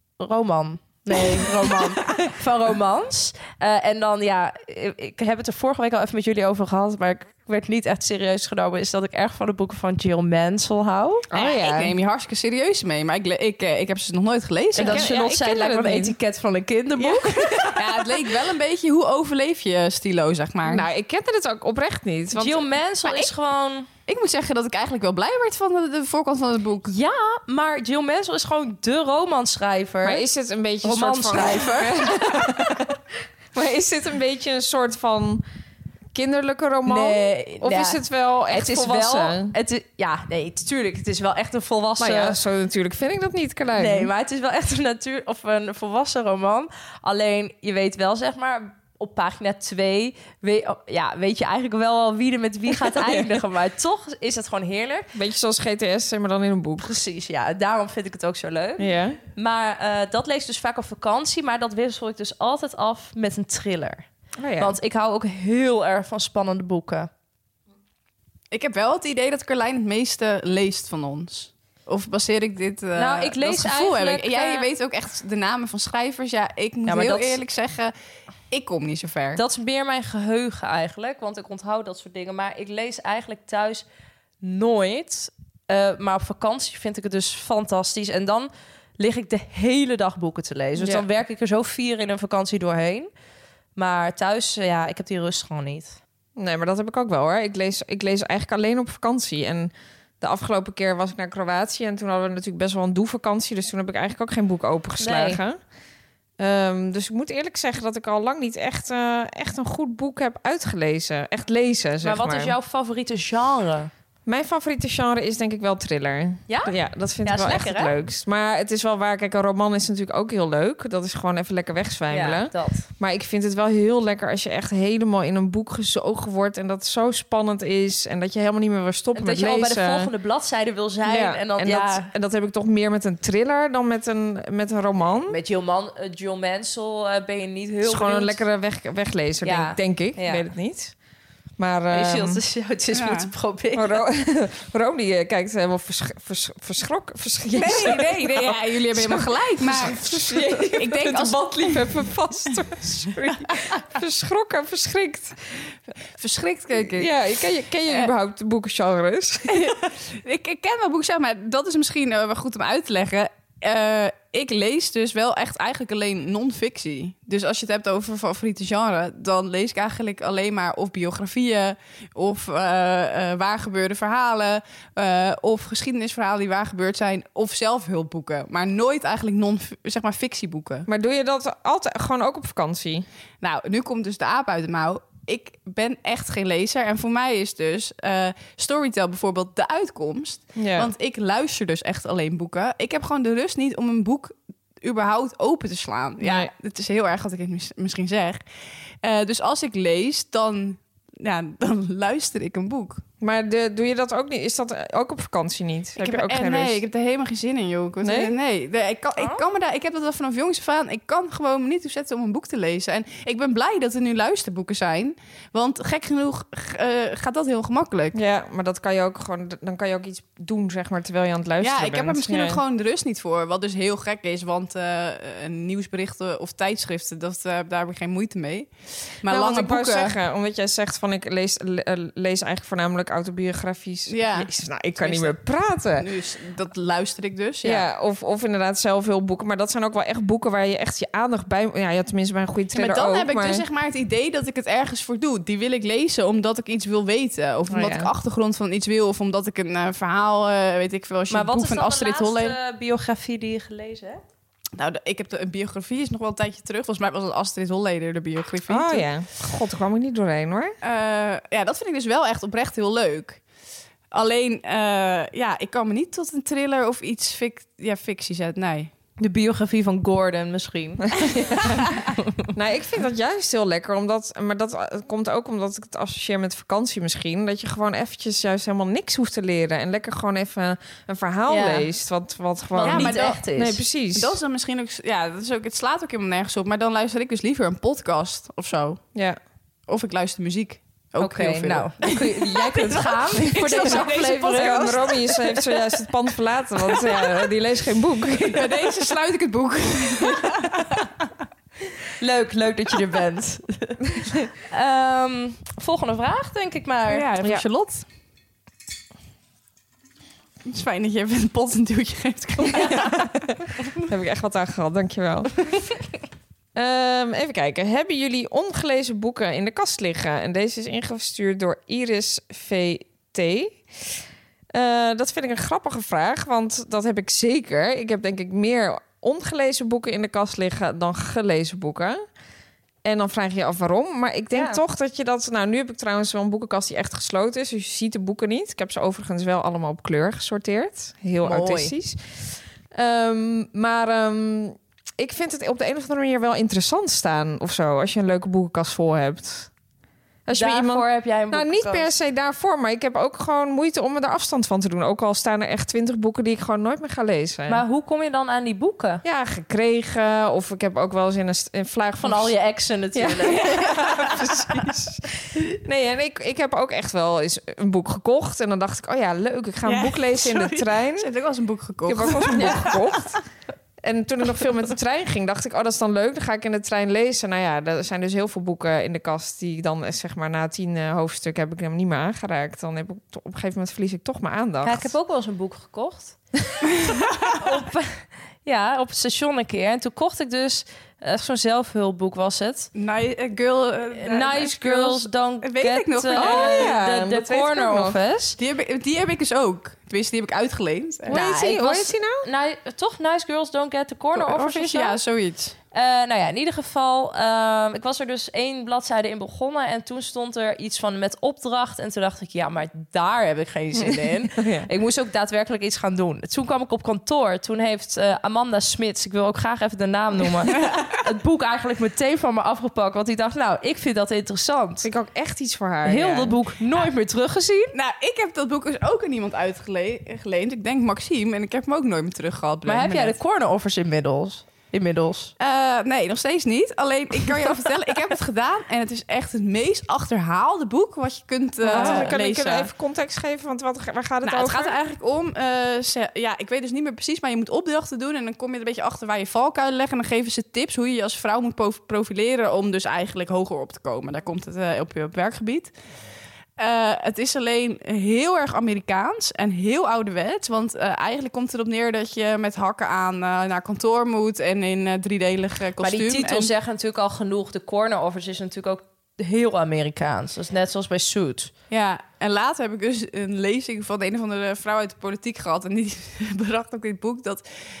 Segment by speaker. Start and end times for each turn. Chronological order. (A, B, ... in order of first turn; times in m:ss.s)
0:00.2-0:11.3 A
0:11.3-0:11.9 B
0:11.3-0:15.1 C
0:14.8-0:16.2 B
0:14.8-0:17.8 A
0:17.0-0:20.8 C
0:20.6-0:22.6 B
0:22.3-0:23.9 A
0:23.0-0:23.3 C
0:24.1-0:26.9 C
0:26.9-0:30.2 A
0:30.0-0:33.0 B
0:30.8-0:32.4 A
0:31.4-0:31.9 C
0:33.5-0:35.4 B
0:36.1-0:39.5 B
0:36.8-0:42.4 A
0:42.0-0:44.1 B
0:43.7-0:55.1 A
0:52.7-0:53.4 B
0:55.1-0:57.0 B
0:56.8-1:04.0 A
0:58.8-0:59.2 B
1:04.4-1:04.8 B
1:04.6-1:07.1 A
1:08.5-1:17.9 C
1:13.0-1:14.7 A
1:16.9-1:17.4 A
1:18.5-1:19.4 C
1:19.4-1:23.8 A
1:24.4-1:33.1 A
1:30.8-1:31.0 B
1:33.8-1:36.0 A
1:36.4-1:45.6 B
1:45.0-1:45.4 A
1:46.4-1:52.5 B
1:52.0-1:53.9 A
1:54.2-2:10.1 B
1:56.5-1:57.9 A
2:02.1-2:02.9 A
2:09.1-2:12.1 A
2:11.0-2:15.4 B
2:15.2-2:18.4 A
2:17.8-2:20.9 B
2:19.4-2:20.4 A
2:21.6-2:22.4 B
2:21.9-2:24.0 A
2:22.9-2:23.3 C
2:23.7-2:35.4 B
2:27.5-2:32.0 C
2:36.2-2:37.1 C
2:36.8-2:39.9 B
2:39.5-3:00.9 C
3:00.9-3:03.1 B
3:03.4-3:18.4 C
3:10.6-3:10.9 B
3:16.2-3:16.5 B
3:19.0-3:23.0 C
3:23.2-3:26.8 B
3:26.0-3:38.2 C
3:28.0-3:28.3 B
3:29.2-3:29.4 A
3:38.1-3:42.6 B
3:41.6-3:48.7 C
3:49.2-3:50.2 C
3:49.3-3:56.1 B
3:54.1-3:55.4 C
3:56.0-3:57.8 C
3:57.6-4:03.6 B
4:02.7-4:12.6 C
4:07.7-4:08.1 B
4:11.3-4:14.2 A
4:14.8-4:19.1 C
4:18.7-4:20.7 B
4:20.8-4:23.4 C
4:24.1-4:28.9 C
4:29.2-4:31.3 A
4:31.2-4:31.8 B
4:32.5-4:44.4 B
4:41.5-4:41.9 A
4:42.7-4:43.8 A
4:42.8-4:43.4 C
4:44.1-4:49.0 C
4:49.9-4:55.2 C
4:51.2-4:55.6 A
4:53.7-4:58.9 B
4:58.5-5:01.1 C
5:02.2-5:07.3 A
5:07.1-5:08.0 C
5:10.6-5:13.4 C
5:12.8-5:15.6 B
5:16.7-5:23.8 B
5:24.7-5:32.2 B
5:33.0-5:49.7 B
5:34.5-5:34.8 A
5:41.4-5:41.9 A
5:50.4-5:57.8 B
5:50.5-5:52.1 A
5:57.7-5:59.2 A
5:59.2-6:02.5 B
6:02.2-6:04.0 A
6:03.1-6:11.3 B
6:03.6-6:04.6 C
6:09.8-6:13.2 C
6:12.0-6:13.4 B
6:14.0-6:25.1 B
6:24.8-6:26.4 A
6:27.1-6:27.5 C
6:27.5-6:32.9 A
6:32.9-6:37.0 C
6:34.1-6:38.6 A
6:36.4-6:38.2 B
6:38.6-6:41.4 C
6:41.3-6:45.2 A
6:41.3-6:42.4 B
6:44.3-6:45.8 C
6:45.9-7:05.1 A
6:54.2-6:54.9 B
7:00.8-7:01.1 C
7:05.0-7:06.6 B
7:06.0-7:07.9 A
7:07.9-7:13.4 C
7:12.8-7:15.5 A
7:15.6-7:22.9 C
7:21.8-7:25.0 B
7:21.9-7:22.3 A
7:24.4-7:35.9 C
7:36.8-7:46.7 C
7:46.0-7:51.7 A
7:51.9-7:57.6 C